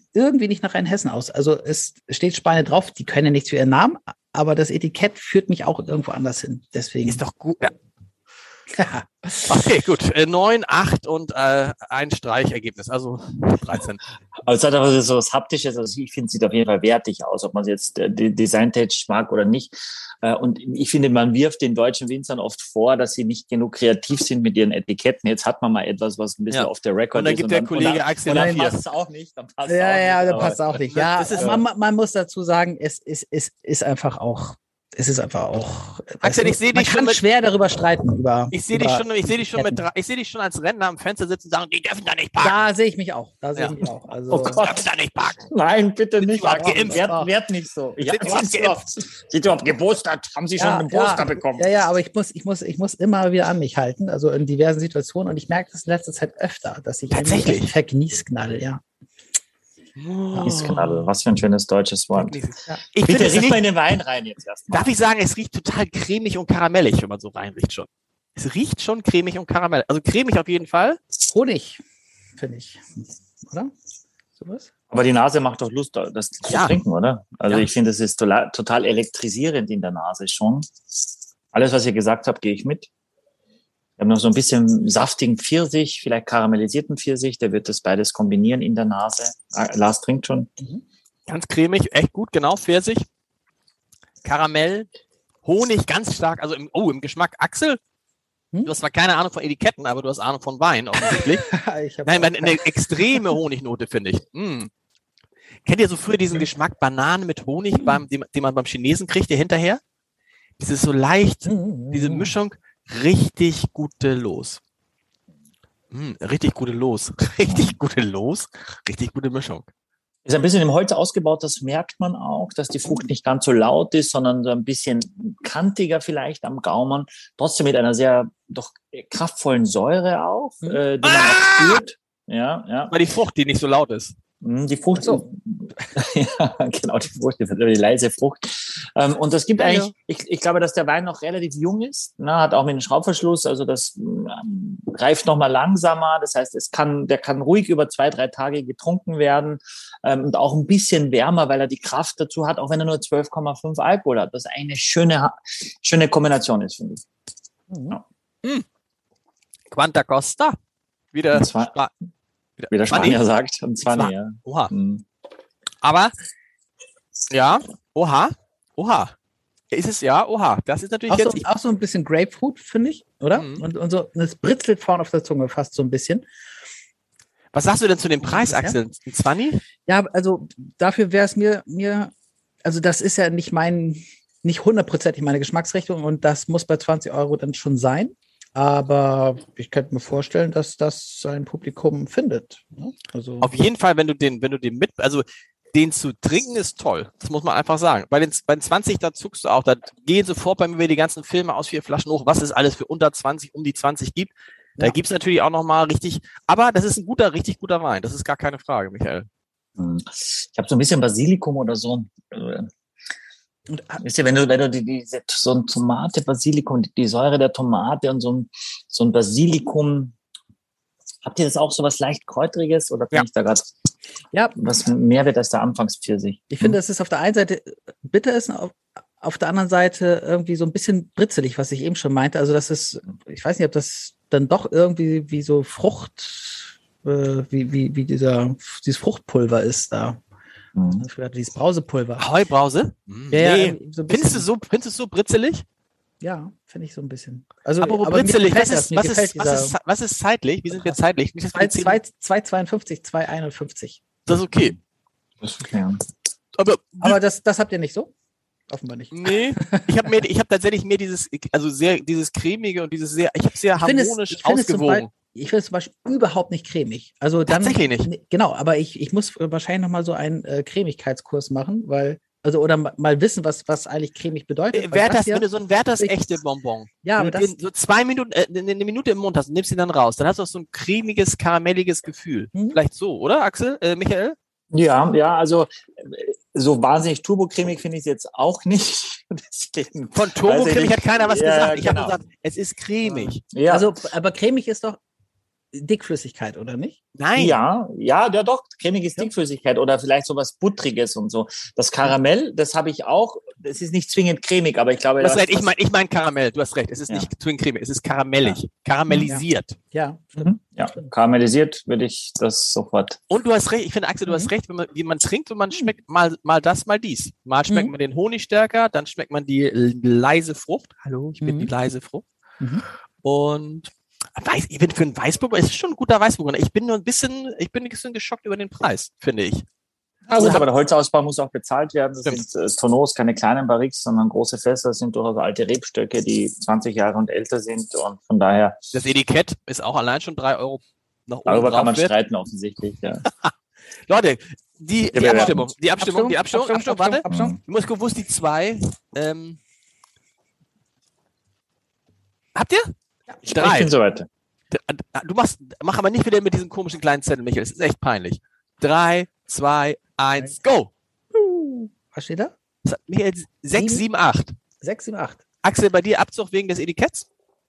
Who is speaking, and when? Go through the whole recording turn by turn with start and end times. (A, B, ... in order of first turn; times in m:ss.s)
0:00.2-0:07.2 A
0:07.1-0:07.7 B
0:08.7-0:09.5 A
0:09.5-0:14.0 B
0:14.5-0:31.6 C
0:26.5-0:28.7 B
0:28.3-0:28.8 A
0:29.7-0:39.9 A
0:30.9-0:31.4 B
0:36.2-0:37.2 B
0:38.5-0:42.7 B
0:42.4-0:44.6 A
0:44.3-0:44.8 C
0:44.5-0:45.5 B
0:45.5-0:51.7 C
0:46.2-0:47.0 B
0:46.5-0:47.3 A
0:48.0-0:48.8 B
0:50.6-0:58.8 A
0:57.1-0:57.7 B
1:00.0-1:01.1 B
1:00.4-1:02.4 C
1:02.1-1:03.6 B
1:03.0-1:04.9 C
1:04.7-1:11.0 B
1:11.3-1:11.8 A
1:12.4-1:13.7 A
1:14.4-1:14.7 A
1:14.9-1:20.7 C
1:16.5-1:16.8 B
1:21.5-1:22.9 C
1:24.0-1:30.5 C
1:31.3-1:33.0 B
1:34.2-1:34.9 B
1:35.4-1:37.8 B
1:38.6-1:41.5 B
1:41.3-1:43.2 A
1:42.0-1:44.7 B
1:45.6-1:49.8 B
1:50.6-1:54.6 B
1:51.5-1:52.3 A
1:55.9-1:59.7 B
2:00.3-2:13.0 C
2:11.0-2:11.8 B
2:12.9-2:14.2 B
2:14.4-2:37.0 C
2:15.0-2:15.2 A
2:19.6-2:19.9 B
2:37.7-2:38.0 A
2:39.7-2:40.6 B
2:41.1-2:41.9 B
2:41.3-2:41.8 C
2:42.6-2:43.2 B
2:42.7-2:45.0 C
2:43.8-2:44.7 B
2:45.8-2:46.1 B
2:47.3-2:49.1 B
2:49.7-2:51.5 B
2:51.1-2:56.2 A
2:53.3-2:53.7 B
2:57.5-2:59.6 B
2:58.2-2:58.8 A
2:59.9-3:02.1 A
3:02.6-3:13.5 A
3:13.4-3:24.3 B
3:24.9-3:29.3 B
3:29.8-3:32.7 C
3:33.7-3:34.0 A
3:34.0-3:40.2 C
3:41.2-3:43.7 C
3:44.6-3:46.8 C
3:46.5-4:00.2 A
4:00.8-4:01.0 C
4:01.0-4:02.2 A
4:02.2-4:05.6 B
4:03.3-4:04.5 A
4:06.2-4:09.8 A
4:07.8-4:12.0 B
4:10.7-4:11.0 A
4:11.5-4:14.0 A
4:14.3-4:14.8 B
4:15.4-4:16.0 C
4:16.6-4:17.1 B
4:17.0-4:18.1 A
4:18.7-4:20.0 A
4:19.1-4:25.1 B
4:23.8-4:35.5 A
4:27.5-4:28.1 B
4:34.7-4:44.4 B
4:37.0-4:37.5 A
4:44.7-4:52.2 C
4:50.1-4:53.4 B
4:53.0-4:55.0 A
4:53.5-4:54.0 C
4:55.8-4:57.0 A
4:57.2-4:57.6 B
4:57.4-5:05.7 C
5:05.2-5:09.8 B
5:09.1-5:11.1 A
5:10.4-5:13.2 C
5:13.3-5:22.2 B
5:17.7-5:17.9 A
5:21.4-5:21.7 A
5:23.2-5:29.7 B
5:30.3-5:38.8 C
5:30.4-5:30.6 B
5:38.9-5:42.1 B
5:41.5-5:43.2 C
5:43.2-5:43.5 B
5:44.1-5:49.6 B
5:45.1-5:45.7 C
5:45.2-5:47.6 A
5:47.3-5:47.6 C
5:52.6-5:52.9 B
5:53.4-5:53.9 B
5:53.6-5:54.3 C
5:54.7-6:00.9 B
6:01.3-6:02.5 A
6:02.8-6:04.5 B
6:03.8-6:04.0 A
6:04.8-6:05.4 A
6:05.6-6:07.3 B